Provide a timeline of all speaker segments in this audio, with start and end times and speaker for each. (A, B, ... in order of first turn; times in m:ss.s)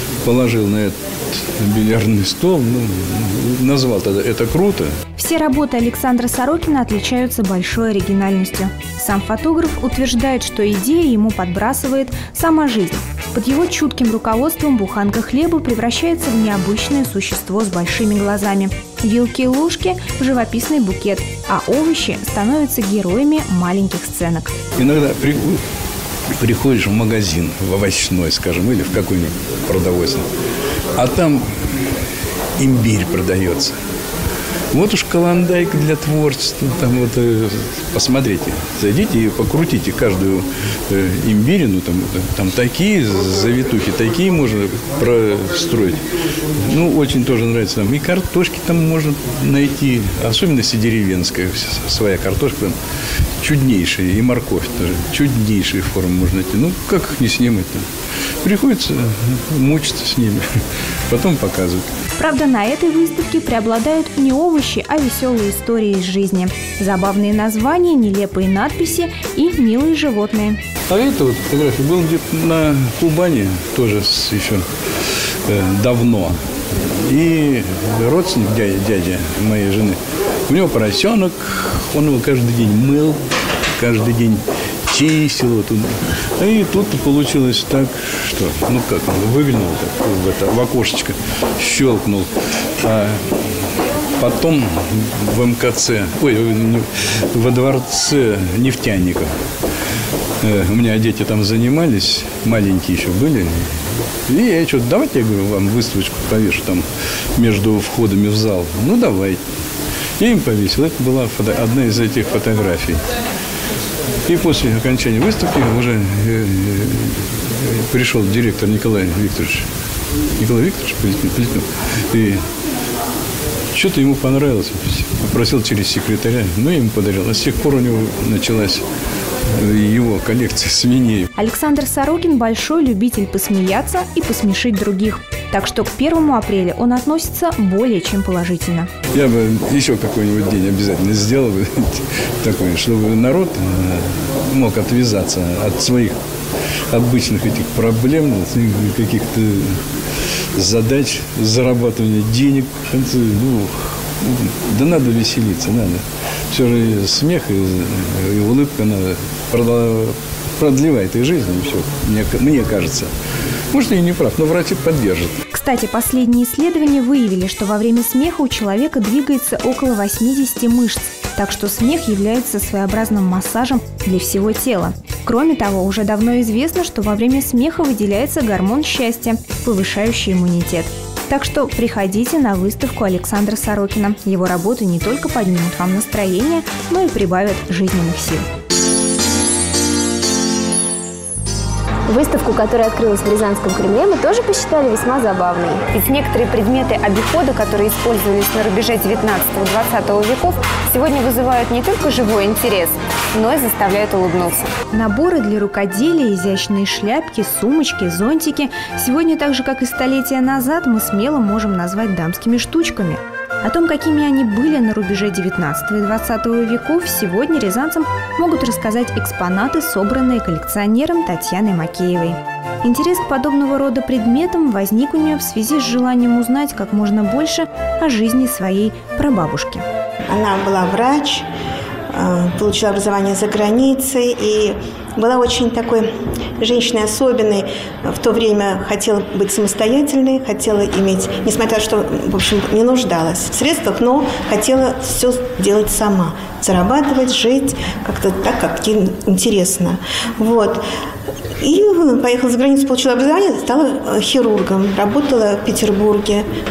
0:00.2-0:04.9 A
0:05.2-0:24.5 B
0:24.8-0:25.6 A
0:26.4-0:30.2 A
0:31.0-0:31.4 A
0:32.6-0:33.7 A
0:34.7-0:46.0 A
0:46.6-0:52.7 A
0:53.4-0:57.8 A
0:58.4-1:00.4 A
1:01.1-1:01.8 A
1:02.2-1:10.6 B
1:10.9-1:14.6 A
1:15.5-1:16.3 A
1:17.0-1:23.2 A
1:23.8-1:25.8 A
1:26.4-1:32.3 A
1:32.8-1:33.3 A
1:34.2-1:39.3 A
1:40.4-1:43.5 A
1:44.3-1:46.8 A
1:47.4-1:49.4 A
1:50.2-1:53.0 A
1:54.2-1:57.2 A
1:57.9-1:59.6 A
2:00.4-2:02.4 A
2:03.7-2:08.8 A
2:09.6-2:11.2 A
2:11.3-2:18.9 B
2:19.1-2:26.1 A
2:26.9-2:29.7 A
2:30.6-2:36.0 A
2:36.5-2:43.1 A
2:43.7-2:45.3 A
2:45.5-3:08.4 B
3:12.1-3:15.8 C
3:15.9-3:24.7 D
3:24.9-3:49.8 B
3:50.3-3:51.4 E
3:52.1-3:56.1 E
3:56.6-4:10.8 E
4:11.6-4:16.4 E